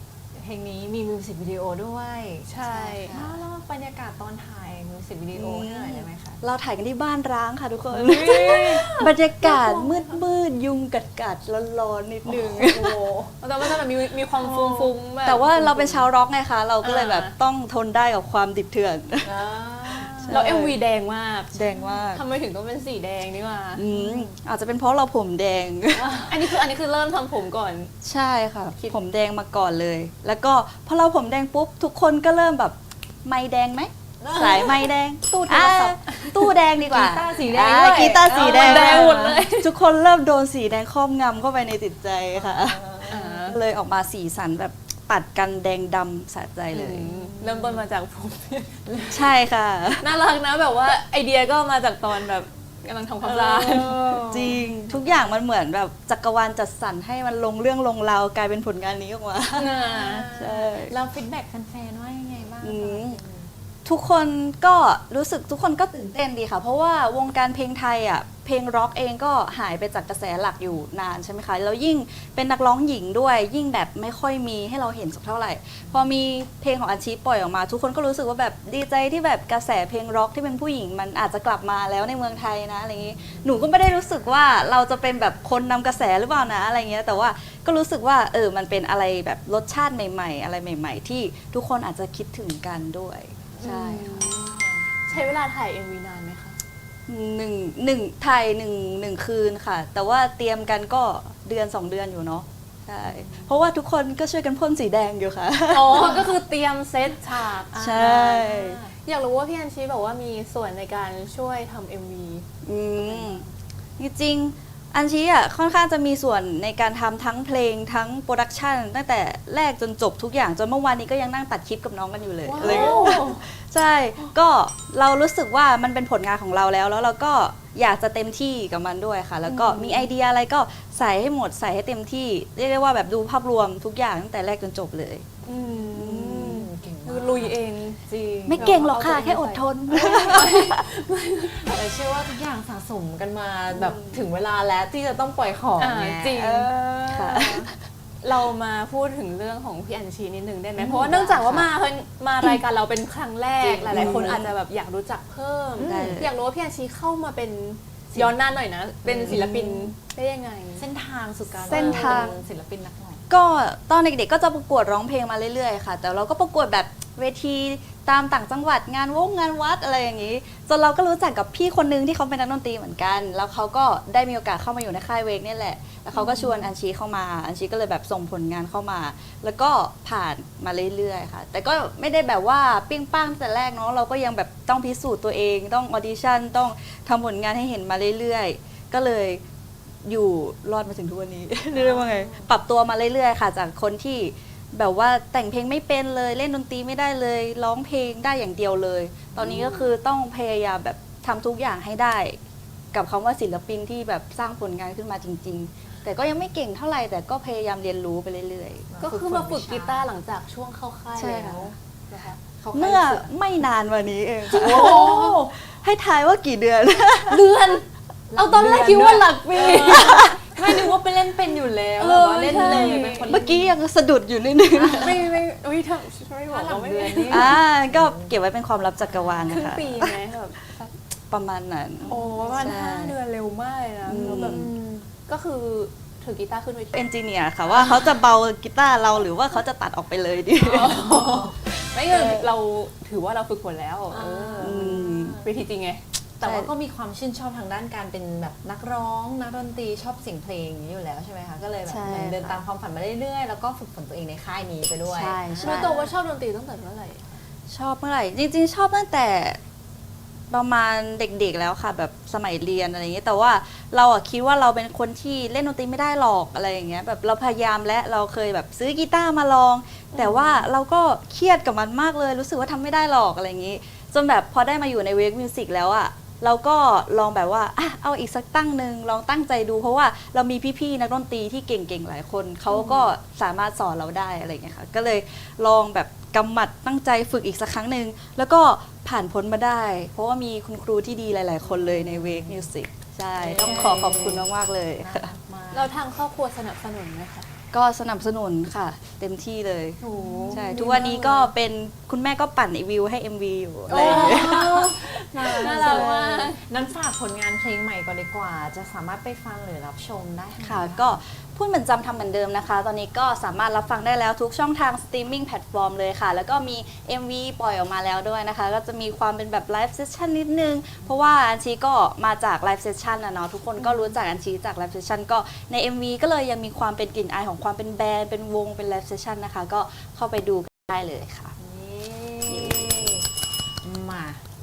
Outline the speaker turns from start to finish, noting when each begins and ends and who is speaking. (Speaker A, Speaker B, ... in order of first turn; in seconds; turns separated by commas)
Speaker A: 0.3-2.5, Speaker B: 2.5-3.1, Speaker C: 2.6-3.4, Speaker A: 3.1-6.4, Speaker C: 5.3-13.0, Speaker A: 7.9-9.9, Speaker B: 8.0-8.9, Speaker A: 12.3-13.4, Speaker B: 13.4-16.1, Speaker A: 14.4-14.9, Speaker C: 15.2-19.3, Speaker B: 16.8-17.3, Speaker A: 19.2-20.4, Speaker C: 19.9-20.8, Speaker B: 20.3-23.9, Speaker C: 21.5-22.2, Speaker C: 23.8-26.2, Speaker A: 23.9-24.3, Speaker A: 26.0-26.4, Speaker B: 26.3-27.9, Speaker C: 28.0-47.1, Speaker A: 34.2-34.9, Speaker B: 35.3-36.5, Speaker A: 36.8-39.4, Speaker B: 38.2-39.7, Speaker A: 42.4-43.4, Speaker B: 43.1-43.6, Speaker B: 46.7-49.2, Speaker A: 47.1-47.8, Speaker A: 48.9-49.1, Speaker C: 49.1-50.1, Speaker B: 50.0-54.2, Speaker A: 53.2-54.7, Speaker C: 54.2-59.8, Speaker B: 59.5-60.3, Speaker A: 59.6-63.5, Speaker C: 60.4-60.9, Speaker C: 62.6-63.2, Speaker C: 63.9-94.2, Speaker B: 93.6-96.6, Speaker A: 93.6-94.8, Speaker C: 97.1-106.3, Speaker A: 103.1-103.5, Speaker B: 105.7-112.5, Speaker C: 107.7-108.8, Speaker C: 112.6-113.4, Speaker B: 113.1-113.4, Speaker C: 114.0-135.3, Speaker A: 122.5-123.3, Speaker B: 122.6-123.4, Speaker B: 129.5-130.1, Speaker B: 135.5-141.8, Speaker A: 135.7-138.9, Speaker C: 135.9-136.6, Speaker C: 138.5-140.9, Speaker A: 141.5-146.7, Speaker B: 145.8-147.7, Speaker C: 146.7-147.7, Speaker B: 148.2-160.8, Speaker C: 150.8-151.7, Speaker A: 153.7-154.2, Speaker C: 153.9-154.5, Speaker A: 155.8-156.2, Speaker C: 155.8-156.3, Speaker A: 159.0-159.6, Speaker C: 159.3-159.9, Speaker A: 160.8-163.3, Speaker B: 161.7-162.3, Speaker C: 161.7-162.4, Speaker C: 163.3-189.4, Speaker B: 176.3-176.5, Speaker C: 190.1-202.4, Speaker A: 191.8-192.5, Speaker A: 199.3-199.9, Speaker C: 202.9-208.9, Speaker A: 208.9-210.1, Speaker B: 209.0-213.3, Speaker C: 211.2-211.7, Speaker C: 212.7-217.4, Speaker A: 214.5-215.5, Speaker B: 214.7-215.1, Speaker B: 217.3-220.4, Speaker A: 218.3-223.7, Speaker C: 219.9-220.4, Speaker B: 222.0-223.4, Speaker C: 222.5-225.3, Speaker B: 224.8-227.6, Speaker A: 226.5-228.3, Speaker C: 227.3-230.2, Speaker B: 229.3-230.9, Speaker C: 231.3-233.2, Speaker B: 232.1-237.0, Speaker A: 232.1-232.7, Speaker C: 234.1-234.7, Speaker A: 234.2-235.1, Speaker C: 236.9-242.5, Speaker B: 237.7-238.2, Speaker B: 240.6-246.0, Speaker A: 241.1-241.5, Speaker A: 244.1-245.5, Speaker C: 244.6-245.4, Speaker A: 246.4-256.1, Speaker C: 246.4-246.7, Speaker C: 251.9-252.6, Speaker C: 255.1-255.9, Speaker B: 255.6-257.4, Speaker C: 257.7-259.6, Speaker C: 260.5-295.3, Speaker B: 270.1-270.7, Speaker A: 291.6-292.7, Speaker A: 293.4-294.5, Speaker B: 293.6-294.4, Speaker A: 295.0-295.9, Speaker B: 295.7-297.5, Speaker C: 297.7-300.0, Speaker A: 300.0-301.1, Speaker B: 300.1-301.5, Speaker C: 300.5-306.2, Speaker A: 303.9-311.2, Speaker B: 303.9-306.6, Speaker C: 310.6-331.5, Speaker A: 331.6-333.3, Speaker C: 332.5-333.2, Speaker A: 333.8-334.4